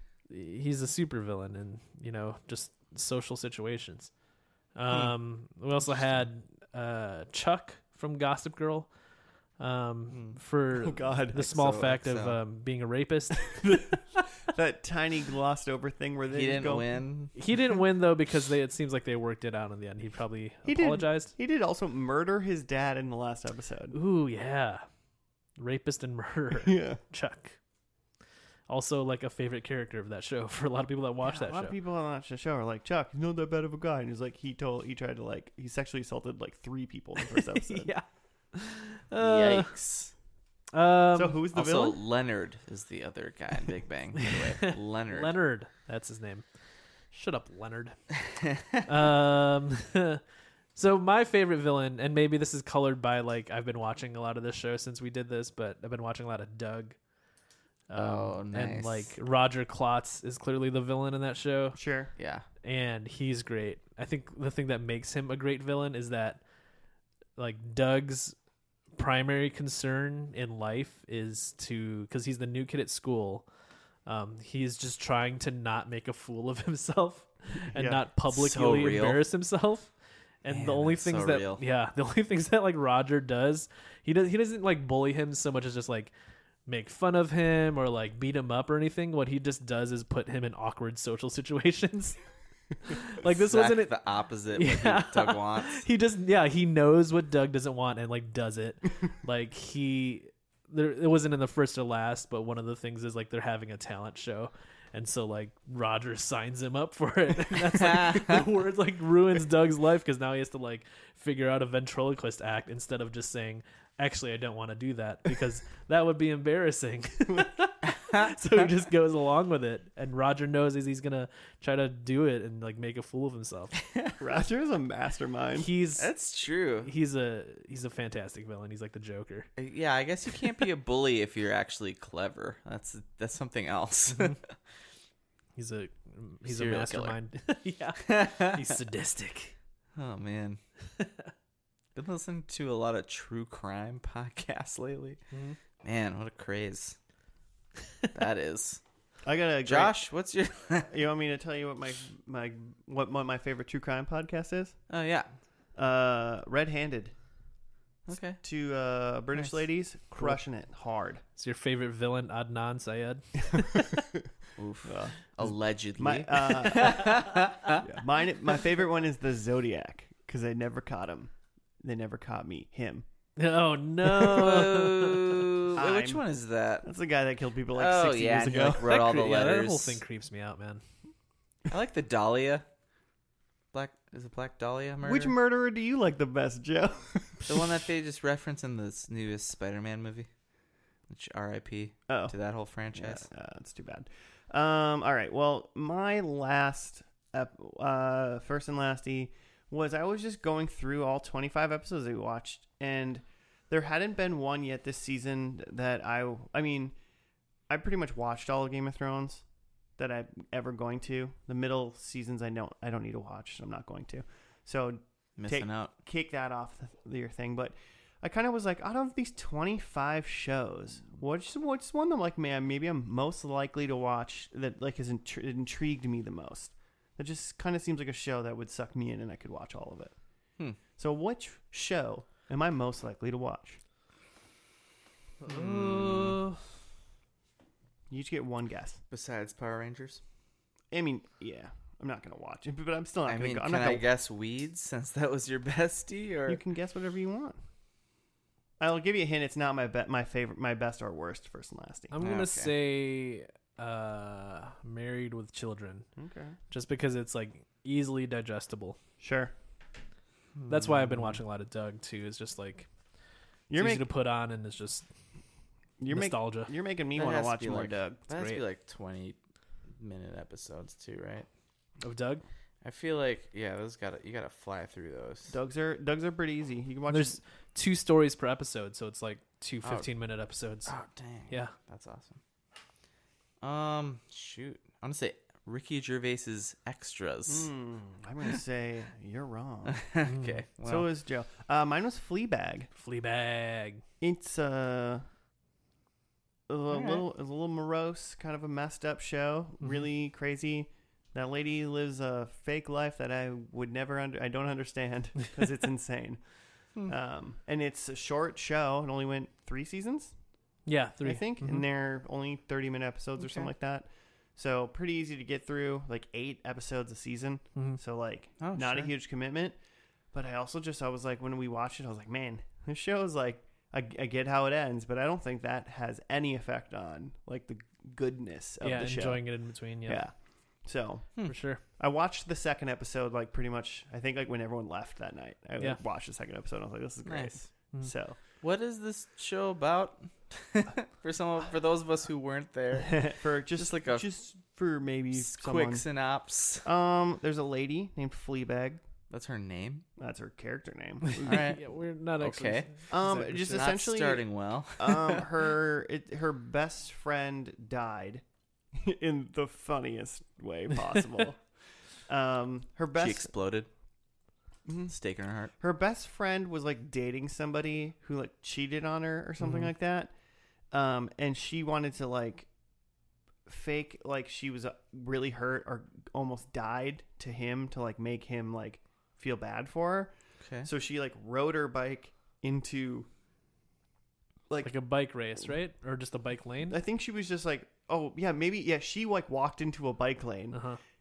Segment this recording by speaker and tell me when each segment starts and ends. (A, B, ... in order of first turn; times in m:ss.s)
0:00.3-0:04.1 A
0:04.7-0:08.9 A
0:09.6-0:13.8 A
0:10.1-0:10.4 B
0:10.7-0:11.5 C
0:11.4-0:12.4 B
0:13.6-0:17.0 C
0:16.3-0:17.3 B
0:17.3-0:21.3 A
0:20.6-0:23.9 C
0:23.9-0:24.8 A
0:25.6-0:27.6 A
0:26.5-0:27.0 C
0:28.7-0:31.7 A
0:31.2-0:37.9 C
0:37.3-0:39.7 A
0:39.2-0:40.1 B
0:40.7-0:41.4 A
0:41.1-0:42.0 C
0:41.5-0:45.4 B
0:44.2-0:46.4 A
0:47.1-0:48.1 A
0:48.6-0:48.8 B
0:48.8-0:50.2 A
0:50.7-0:57.0 A
0:57.9-1:01.8 A
0:57.9-0:59.1 B
1:01.7-1:02.1 C
1:02.2-1:02.4 B
1:02.6-1:06.4 A
1:07.4-1:08.4 A
1:09.0-1:13.4 A
1:14.0-1:19.9 A
1:17.7-1:18.0 C
1:18.3-1:19.2 B
1:20.4-1:26.1 A
1:20.5-1:21.6 B
1:26.6-1:32.2 A
1:32.8-1:33.9 A
1:33.2-1:35.8 B
1:34.5-2:03.8 A
1:47.7-1:48.4 B
1:57.9-1:58.3 B
2:03.8-2:04.2 B
2:04.2-2:05.7 C
2:05.6-2:06.1 A
2:06.0-2:06.9 B
2:06.8-2:09.5 A
2:09.6-2:14.5 B
2:14.1-2:14.4 A
2:15.6-2:19.5 A
2:16.4-2:17.2 B
2:18.0-2:18.7 B
2:19.9-2:20.6 B
2:21.0-2:21.3 A
2:21.9-2:25.2 B
2:25.3-2:25.6 A
2:25.8-2:27.0 B
2:28.1-2:28.8 B
2:29.2-2:29.9 C
2:29.6-2:30.9 B
2:30.8-2:34.8 C
2:34.9-2:35.3 B
2:35.8-2:37.1 C
2:38.1-2:38.4 B
2:38.4-2:41.2 C
2:41.4-2:43.7 A
2:43.5-2:44.3 C
2:44.6-2:47.8 B
2:44.8-2:47.2 C
2:47.8-2:53.0 C
2:53.4-2:55.4 A
2:54.0-2:56.9 B
2:55.8-2:56.2 C
2:56.8-2:58.9 C
2:57.7-3:00.0 B
2:58.8-3:00.8 A
3:01.7-3:02.6 B
3:03.7-3:05.3 B
3:05.0-3:07.8 C
3:07.4-3:10.3 B
3:11.1-3:13.3 B
3:12.1-3:12.3 C
3:12.9-3:27.0 C
3:27.7-3:29.4 C
3:30.0-3:50.1 C
3:35.4-3:35.9 B
3:51.0-3:53.8 C
3:55.4-3:56.6 A
3:55.4-3:56.4 B
3:58.1-3:59.0 C
3:59.1-4:00.2 B
4:00.9-4:04.0 C
4:03.3-4:06.6 B
4:06.5-4:07.6 C
4:08.8-4:12.1 C
4:12.1-4:16.1 A
4:12.2-4:12.7 B
4:16.2-4:16.6 C
4:16.7-4:19.0 A
4:19.2-4:19.5 C
4:20.6-4:21.4 B
4:20.7-4:22.9 A
4:23.7-4:24.1 C
4:23.7-4:25.0 A
4:26.0-4:28.2 C
4:26.1-4:26.7 A
4:27.1-4:29.4 B
4:28.3-4:28.6 A
4:30.0-4:31.5 B
4:32.0-4:32.4 A
4:32.8-4:35.5 B
4:35.5-4:37.4 C
4:37.1-4:40.9 A
4:39.8-4:40.1 B
4:40.8-4:42.4 B
4:41.5-4:41.7 A
4:43.6-4:47.7 B
4:47.5-4:50.0 C
4:49.9-4:51.1 B
4:50.2-4:50.6 A
4:50.8-4:52.9 C
4:53.0-4:54.0 A
4:54.2-4:55.2 C
4:56.7-5:06.4 C
4:56.9-4:57.2 B
5:07.0-5:10.3 C
5:10.8-5:11.8 A
5:11.2-5:19.8 C
5:13.4-5:13.7 B
5:18.6-5:19.1 B
5:20.3-5:29.4 C
5:28.8-5:30.2 A
5:30.0-5:30.3 C
5:30.8-5:31.4 C
5:31.5-5:31.8 A
5:32.0-5:38.4 C
5:37.2-5:37.6 B
5:38.6-5:44.2 B
5:43.0-5:46.0 C
5:45.3-5:46.9 B
5:46.8-5:49.0 C
5:49.3-5:50.0 B
5:50.2-5:51.6 C
5:51.2-5:53.8 A
5:51.4-5:51.8 B
5:52.4-5:55.5 B
5:53.1-5:54.4 C
5:55.0-6:01.6 C
6:02.3-6:03.5 C
6:03.2-6:03.9 B
6:04.9-6:05.1 C
6:05.1-6:05.7 B
6:05.8-6:10.3 C
6:09.6-6:09.9 A
6:10.9-6:12.7 C
6:13.6-6:20.3 C
6:20.6-6:20.9 B
6:20.8-6:23.3 C
6:24.8-6:27.0 A
6:26.9-6:30.8 C
6:30.7-6:31.0 A